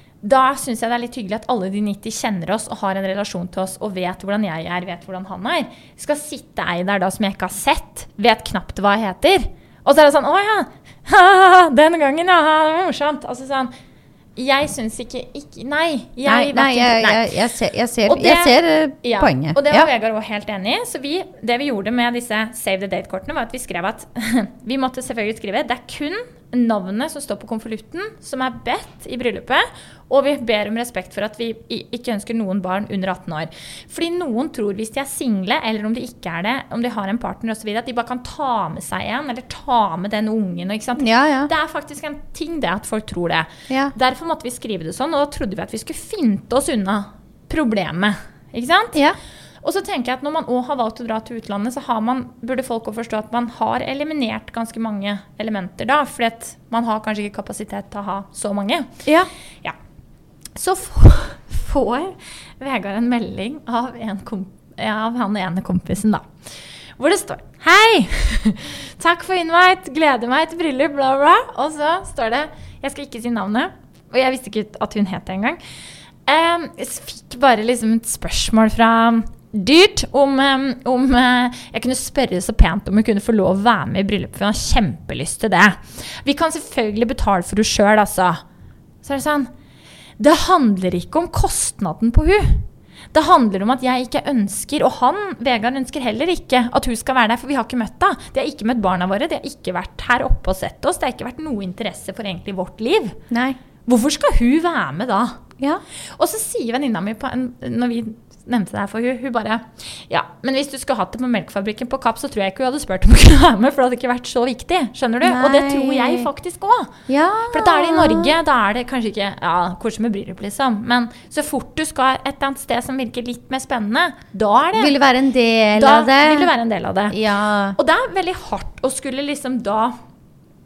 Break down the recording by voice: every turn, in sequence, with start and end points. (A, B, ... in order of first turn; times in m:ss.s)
0:00.2-0:13.7 A
0:14.4-0:17.3 A
0:16.3-0:19.9 B
0:18.1-0:49.0 A
0:41.0-0:41.5 B
0:49.6-0:59.0 A
1:00.6-1:06.3 A
1:07.0-1:15.6 A
1:16.3-1:28.4 A
1:29.0-1:29.5 A
1:30.2-1:43.2 A
1:43.3-1:43.6 B
1:43.9-1:45.4 A
1:46.2-1:57.0 A
1:55.2-1:56.3 B
1:57.1-1:58.4 B
1:57.5-2:04.9 A
2:04.8-2:06.5 B
2:05.8-2:07.2 A
2:07.1-2:07.8 B
2:07.8-2:09.9 A